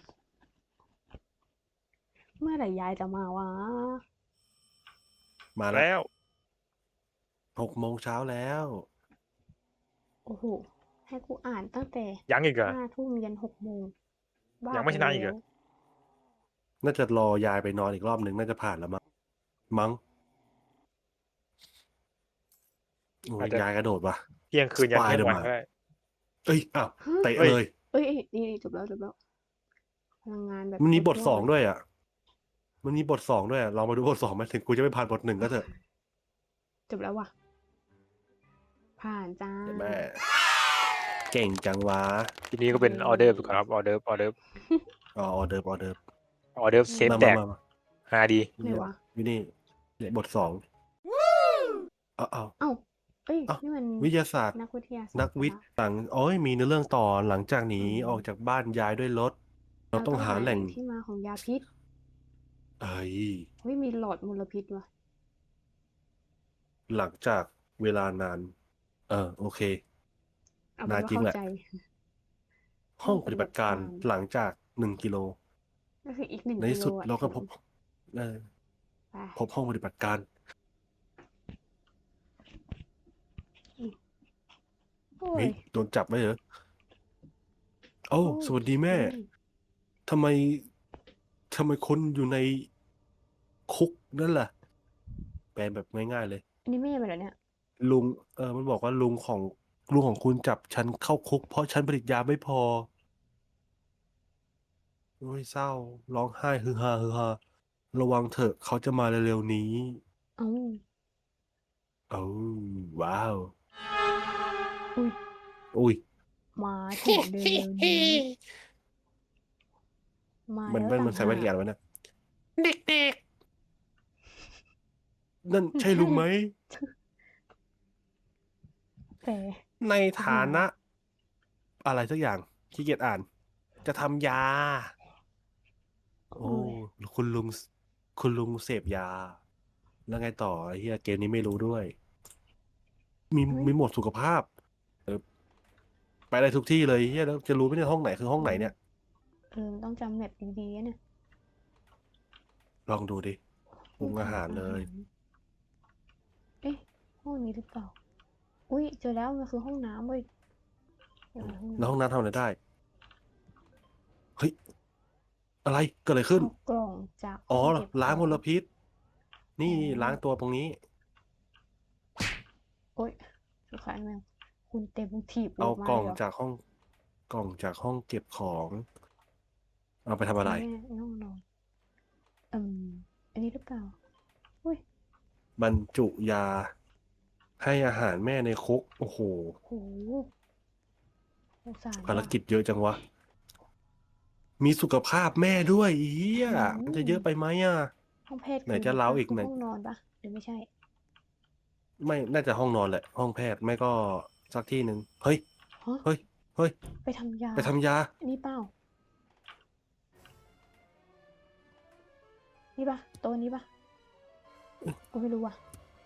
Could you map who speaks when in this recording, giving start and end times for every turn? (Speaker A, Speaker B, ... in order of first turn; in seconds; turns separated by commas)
Speaker A: 2.4-4.0, Speaker B: 5.5-5.8, Speaker C: 5.7-6.1, Speaker B: 7.5-8.8, Speaker A: 10.2-13.9, Speaker C: 12.3-12.8, Speaker A: 14.6-15.4, Speaker C: 14.7-15.3, Speaker B: 16.8-19.0, Speaker B: 19.7-20.0, Speaker B: 23.2-24.2, Speaker C: 24.5-25.6, Speaker B: 24.8-25.5, Speaker B: 26.4-27.7, Speaker A: 27.0-27.3, Speaker A: 27.9-29.1, Speaker A: 30.2-31.5, Speaker B: 30.8-31.8, Speaker B: 32.8-35.7, Speaker A: 35.4-35.7, Speaker A: 36.9-37.3, Speaker A: 39.0-40.0, Speaker B: 39.7-40.2, Speaker B: 41.3-42.3, Speaker C: 42.5-44.3, Speaker A: 42.7-43.6, Speaker B: 45.1-46.0, Speaker C: 46.5-47.4, Speaker A: 46.9-47.3, Speaker B: 47.0-47.6, Speaker C: 48.1-48.5, Speaker B: 48.6-50.6, Speaker A: 48.6-49.0, Speaker B: 52.2-52.5, Speaker A: 52.6-55.6, Speaker B: 53.5-54.5, Speaker B: 55.1-59.4, Speaker A: 57.8-58.2, Speaker B: 59.9-60.8, Speaker A: 59.9-61.6, Speaker B: 62.8-63.5, Speaker A: 63.6-64.9, Speaker B: 66.9-68.5, Speaker B: 69.1-69.8, Speaker A: 70.8-71.8, Speaker B: 70.9-71.3, Speaker B: 73.0-75.3, Speaker A: 73.0-74.1, Speaker A: 76.0-77.5, Speaker B: 76.6-77.5, Speaker B: 78.1-78.5, Speaker A: 79.1-79.4, Speaker B: 79.3-80.2, Speaker A: 85.2-85.6, Speaker B: 85.3-86.4, Speaker B: 88.1-89.2, Speaker A: 88.2-89.2, Speaker B: 90.1-90.7, Speaker B: 91.5-92.7, Speaker B: 93.7-94.5, Speaker B: 95.5-96.4, Speaker A: 96.7-97.3, Speaker B: 97.8-102.9, Speaker B: 105.2-107.4, Speaker B: 107.9-110.0, Speaker A: 110.4-110.8, Speaker B: 112.1-113.5, Speaker B: 115.7-116.0, Speaker A: 116.5-118.2, Speaker B: 117.0-118.3, Speaker A: 120.5-121.5, Speaker B: 120.7-121.8, Speaker B: 122.6-123.2, Speaker B: 125.4-126.5, Speaker A: 125.8-126.9, Speaker A: 129.2-129.6, Speaker B: 129.8-130.7, Speaker A: 130.2-130.6, Speaker B: 131.8-133.2, Speaker B: 133.8-134.9, Speaker A: 136.3-136.8, Speaker B: 136.4-139.4, Speaker B: 140.1-141.9, Speaker B: 143.3-144.4, Speaker A: 143.5-143.7, Speaker B: 146.3-148.7, Speaker A: 148.4-148.7, Speaker A: 149.5-151.0, Speaker B: 152.9-153.4, Speaker A: 154.0-155.1, Speaker B: 154.0-154.9, Speaker A: 156.6-157.9, Speaker A: 158.7-160.2, Speaker A: 161.3-161.9, Speaker B: 161.4-162.6, Speaker B: 165.6-166.5, Speaker A: 166.3-168.4, Speaker B: 167.5-168.7, Speaker B: 169.6-170.8, Speaker A: 169.7-170.2, Speaker A: 173.7-176.2, Speaker B: 175.6-176.6, Speaker B: 177.3-178.8, Speaker B: 180.1-180.7, Speaker A: 180.4-181.4, Speaker A: 182.5-183.9, Speaker B: 185.6-186.7, Speaker B: 187.6-189.6, Speaker A: 189.7-190.3, Speaker A: 191.7-192.3, Speaker B: 192.0-193.0, Speaker B: 194.6-197.9, Speaker A: 196.4-197.2, Speaker A: 198.3-200.7, Speaker B: 198.7-199.5, Speaker B: 202.0-205.4, Speaker B: 206.0-206.7, Speaker A: 207.0-208.7, Speaker B: 207.6-208.1, Speaker A: 212.8-213.7, Speaker A: 215.1-215.6